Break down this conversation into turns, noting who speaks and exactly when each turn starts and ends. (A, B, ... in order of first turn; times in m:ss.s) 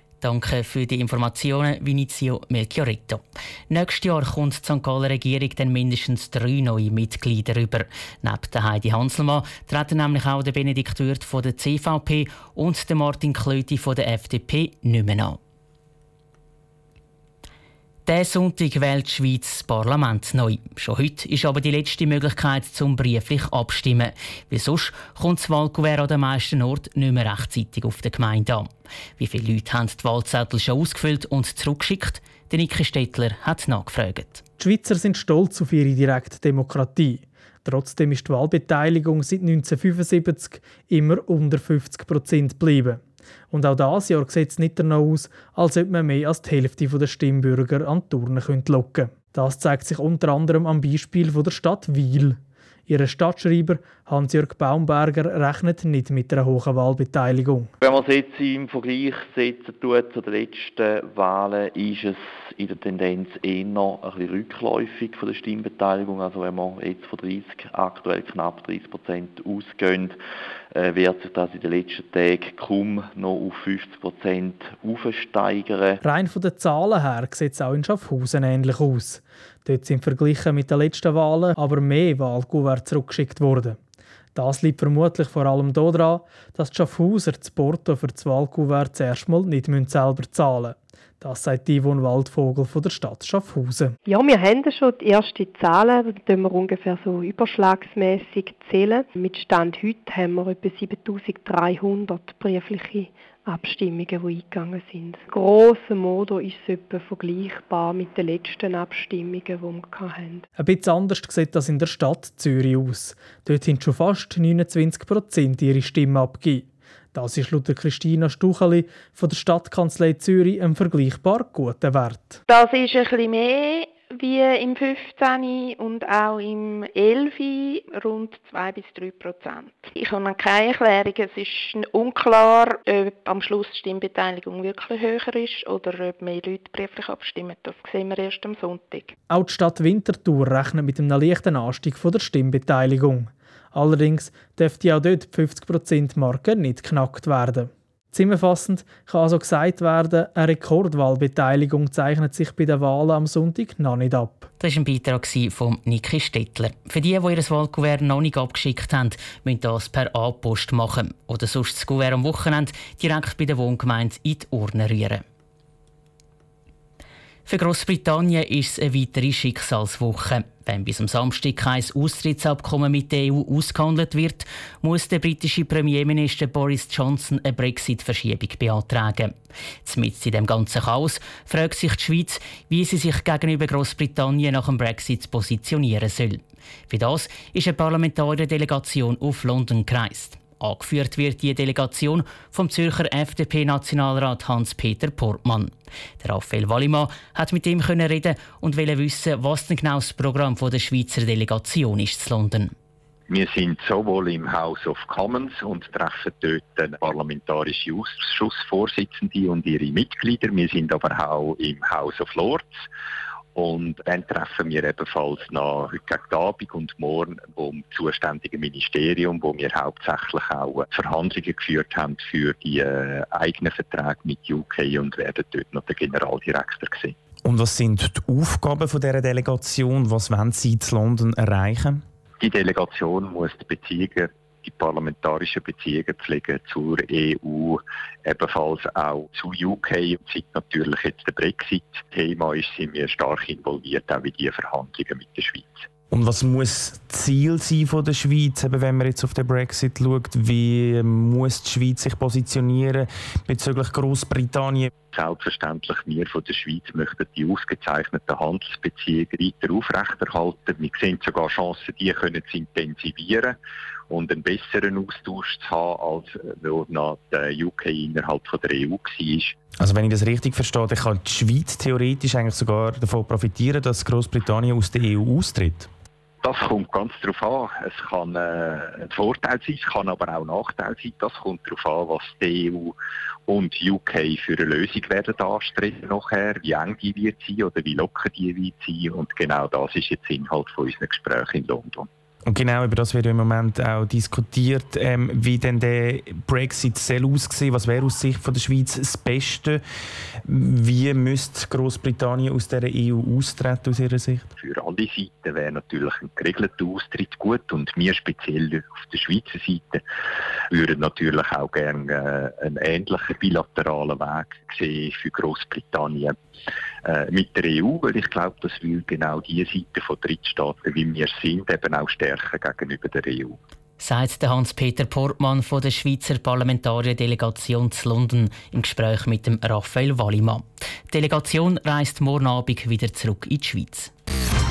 0:00.2-0:15.4 A
0:18.1-0:34.4 A
0:34.6-0:57.7 B
0:57.8-1:10.2 C
1:10.7-1:16.0 C
1:16.0-1:23.8 B
1:24.4-1:34.0 B
1:34.1-1:50.4 D
1:50.6-2:02.4 B
2:02.5-2:19.1 E
2:19.3-2:34.5 B
2:34.6-2:45.2 A
2:47.5-2:59.3 A
2:59.8-3:22.7 A
3:23.3-3:32.7 F
3:33.6-3:47.2 F
3:47.4-3:52.0 G
3:52.4-4:05.7 F
4:06.1-4:14.9 G
4:15.1-4:23.6 F
4:24.1-4:29.6 F
4:29.8-4:35.9 G
4:36.4-4:42.9 F
4:43.5-4:52.1 F
4:52.5-4:59.8 G
5:00.5-5:04.5 G
5:04.6-5:10.0 F
5:10.7-5:16.4 F
5:17.0-5:23.6 F
5:24.0-5:34.1 A